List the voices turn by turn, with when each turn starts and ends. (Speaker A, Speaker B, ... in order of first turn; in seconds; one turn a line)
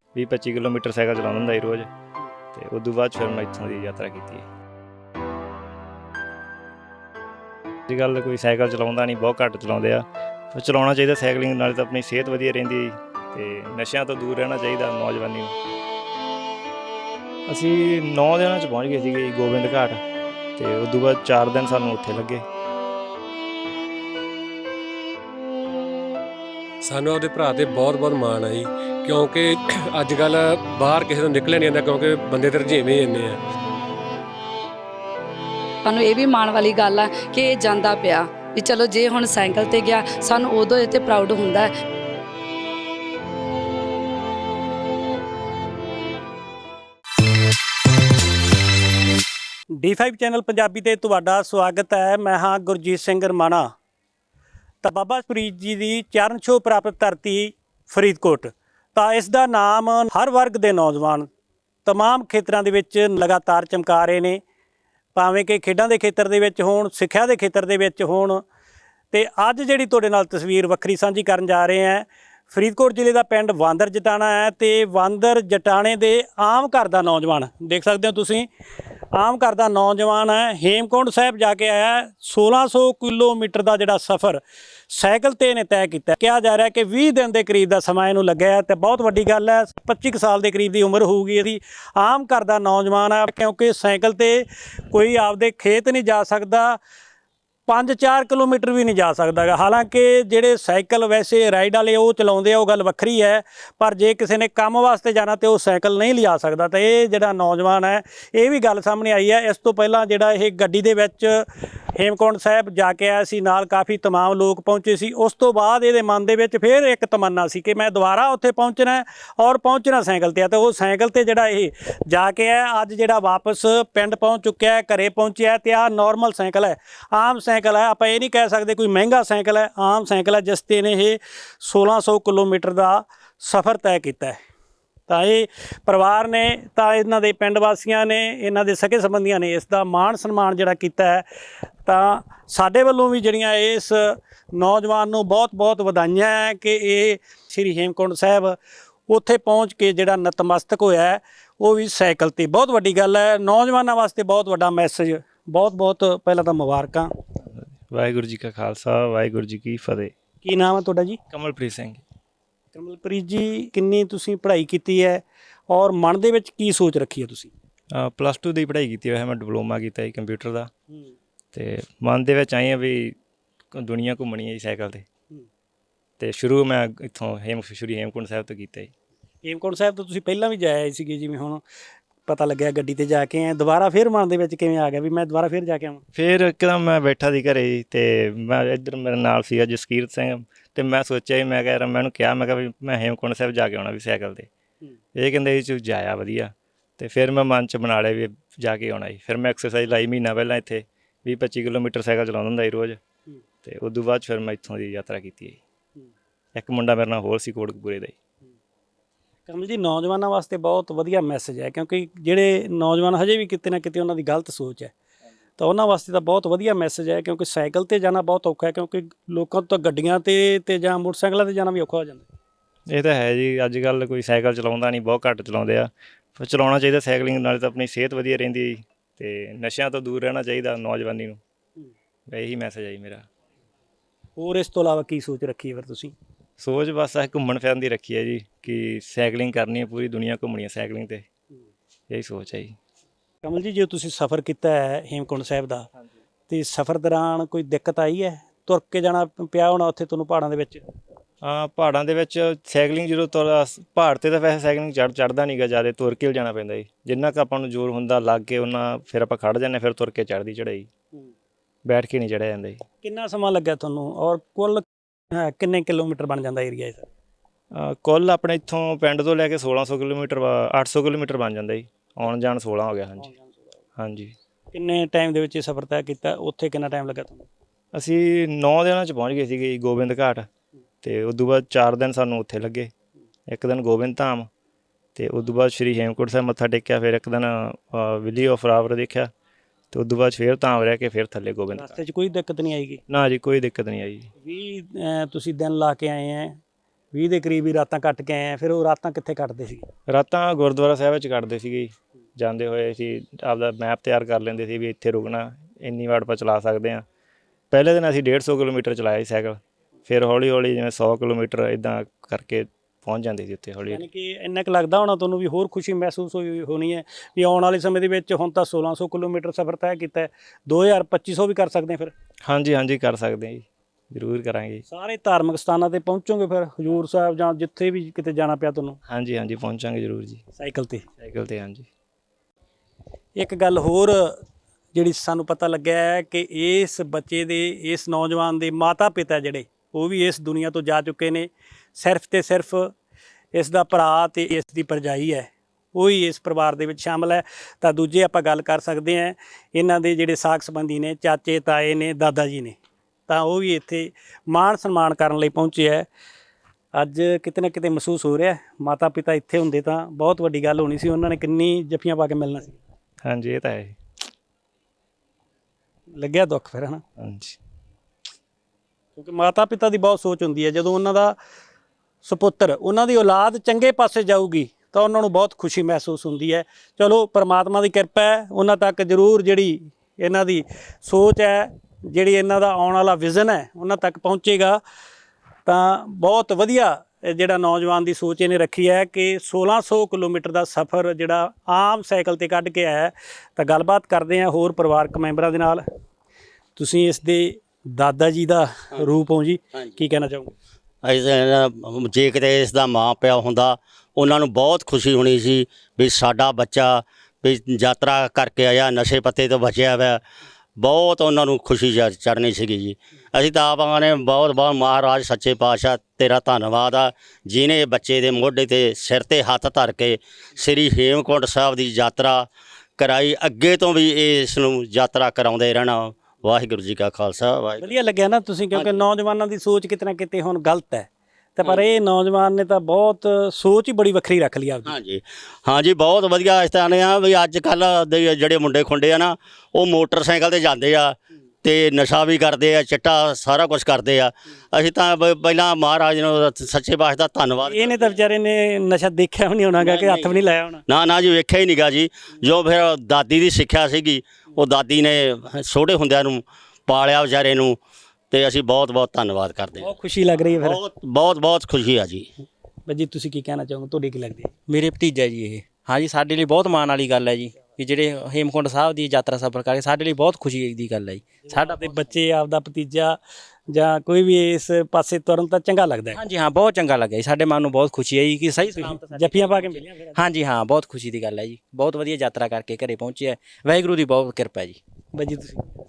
Speaker A: 0.1-1.9
Speaker A: 2.5-4.5
Speaker A: 7.9-15.5
Speaker A: 17.5-20.0
Speaker A: 20.6-22.4
Speaker B: 26.8-33.4
Speaker C: 35.8-41.7
Speaker D: 49.7-53.6
Speaker D: 54.8-61.3
Speaker D: 61.9-64.4
Speaker D: 65.2-68.4
Speaker D: 69.1-78.5
Speaker D: 79.1-96.8
Speaker D: 97.7-134.4
Speaker D: 135.1-141.2
Speaker D: 141.8-148.6
Speaker D: 149.1-157.1
Speaker A: 157.5-160.1
Speaker D: 160.4-161.2
Speaker A: 161.3-162.0
Speaker D: 162.7-167.5
Speaker A: 167.9-170.7
Speaker A: 171.5-173.1
Speaker A: 173.7-175.0
Speaker A: 176.2-178.9
Speaker D: 179.4-181.6
Speaker D: 182.3-186.0
Speaker A: 186.1-194.5
Speaker A: 195.1-203.0
Speaker A: 203.6-205.6
Speaker A: 206.6-208.1
Speaker D: 209.5-214.9
Speaker D: 215.6-222.3
Speaker A: 222.9-231.4
Speaker A: 232.3-233.2
Speaker D: 234.4-236.1
Speaker A: 236.6-241.2
Speaker A: 242.1-242.7
Speaker D: 243.4-245.9
Speaker D: 246.5-250.8
Speaker A: 251.4-260.9
Speaker A: 261.9-262.8
Speaker D: 263.0-267.1
Speaker A: 267.7-273.3
Speaker D: 273.2-273.6
Speaker A: 274.0-274.3
Speaker D: 274.7-277.5
Speaker A: 277.9-280.5
Speaker A: 281.0-282.9
Speaker A: 283.5-284.5
Speaker A: 285.1-289.3
Speaker A: 289.9-291.9
Speaker D: 291.7-293.0
Speaker A: 293.1-294.3
Speaker D: 294.4-296.6
Speaker D: 297.1-299.9
Speaker A: 300.1-307.0
Speaker A: 307.7-314.0
Speaker D: 313.9-322.1
Speaker A: 322.4-324.8
Speaker D: 324.9-329.0
Speaker A: 329.1-330.4
Speaker D: 330.6-331.0
Speaker A: 331.2-331.9
Speaker D: 333.4-334.4
Speaker D: 334.9-342.9
Speaker D: 343.5-352.8
Speaker D: 353.3-356.1
Speaker D: 356.9-362.8
Speaker A: 363.2-363.9
Speaker D: 366.1-367.0
Speaker A: 367.2-367.6
Speaker D: 369.1-371.4
Speaker D: 372.2-384.8
Speaker D: 385.7-395.8
Speaker D: 396.8-400.5
Speaker E: 401.0-410.2
Speaker E: 410.8-422.4
Speaker E: 423.0-427.9
Speaker D: 427.8-434.9
Speaker E: 428.7-429.0
Speaker E: 431.6-432.0
Speaker E: 434.9-448.2
Speaker D: 447.6-450.8
Speaker E: 449.8-457.8
Speaker E: 458.3-459.9
Speaker D: 459.8-460.8
Speaker E: 460.6-462.3
Speaker D: 462.9-464.5
Speaker F: 464.7-472.1
Speaker D: 471.4-476.2
Speaker F: 476.1-484.8
Speaker D: 478.7-480.2
Speaker D: 485.1-485.6